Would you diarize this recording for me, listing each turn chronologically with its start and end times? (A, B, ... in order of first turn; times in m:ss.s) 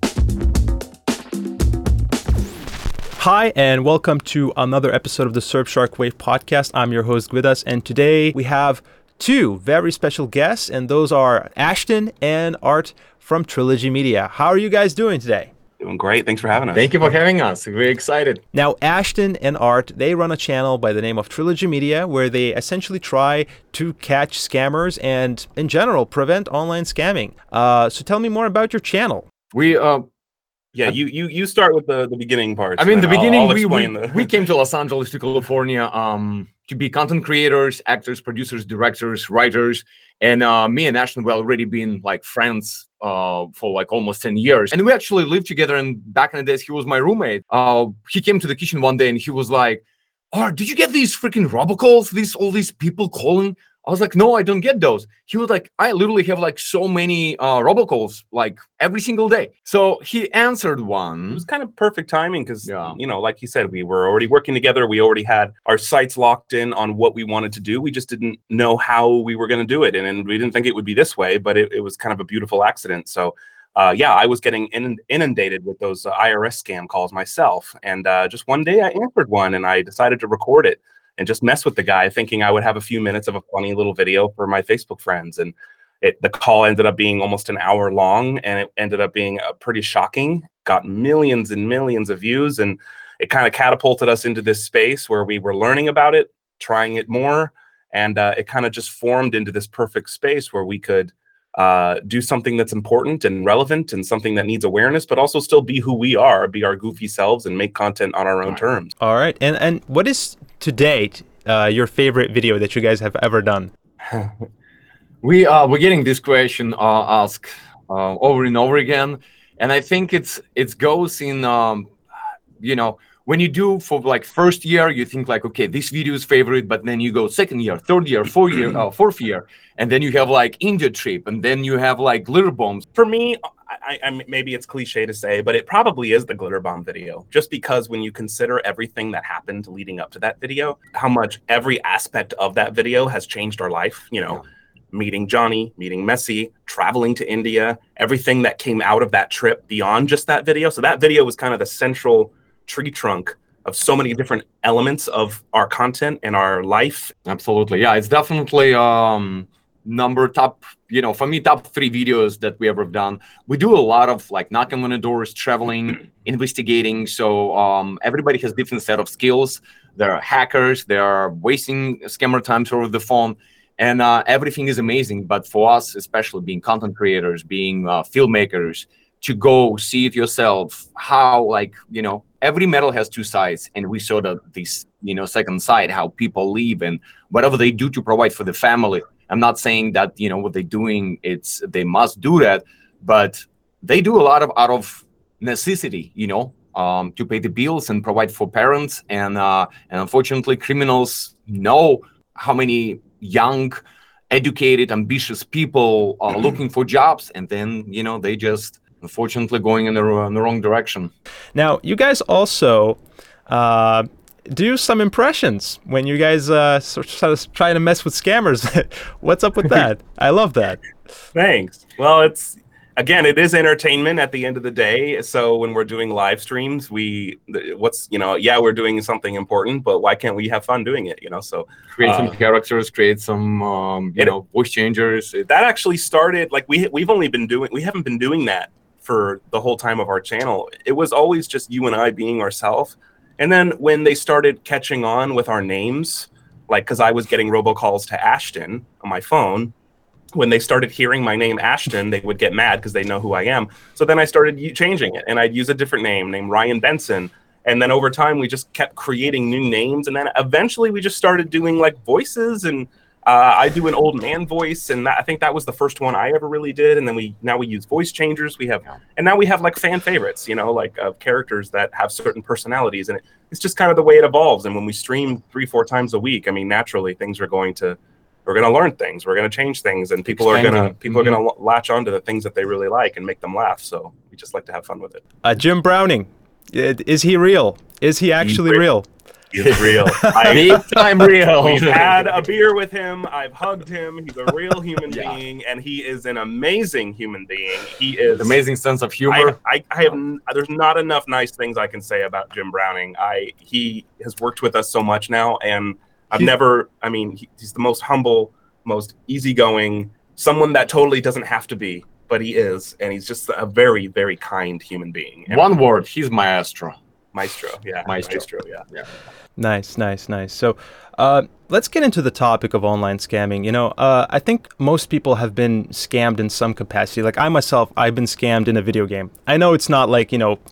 0:03.2-0:15.5 A
0:15.8-0:16.9 B
0:16.7-0:18.4 C
0:18.5-0:29.3 A
0:29.5-0:30.0 C
0:30.8-0:34.3 B
0:32.8-1:01.4 C
1:01.3-1:48.9 B
1:02.6-1:03.0 C
1:49.0-1:53.7 A
1:55.2-2:01.9 C
2:02.6-2:12.8 C
2:13.0-2:37.2 B
2:37.3-3:31.1 C
3:31.6-3:40.8 A
3:41.3-3:52.2 B
3:52.0-3:55.5 C
3:55.5-4:09.7 B
4:10.3-4:45.2 B
4:40.3-4:41.4 C
4:45.4-4:49.1 A
4:49.5-4:50.9 B
4:49.6-4:52.4 C
4:50.1-4:50.8 A
4:51.6-4:58.6 B
4:55.1-4:55.4 C
4:58.3-4:59.6 C
4:59.3-5:15.6 B
5:15.5-5:17.0 C
5:17.3-5:18.8 B
5:18.1-5:19.0 C
5:19.6-5:30.6 A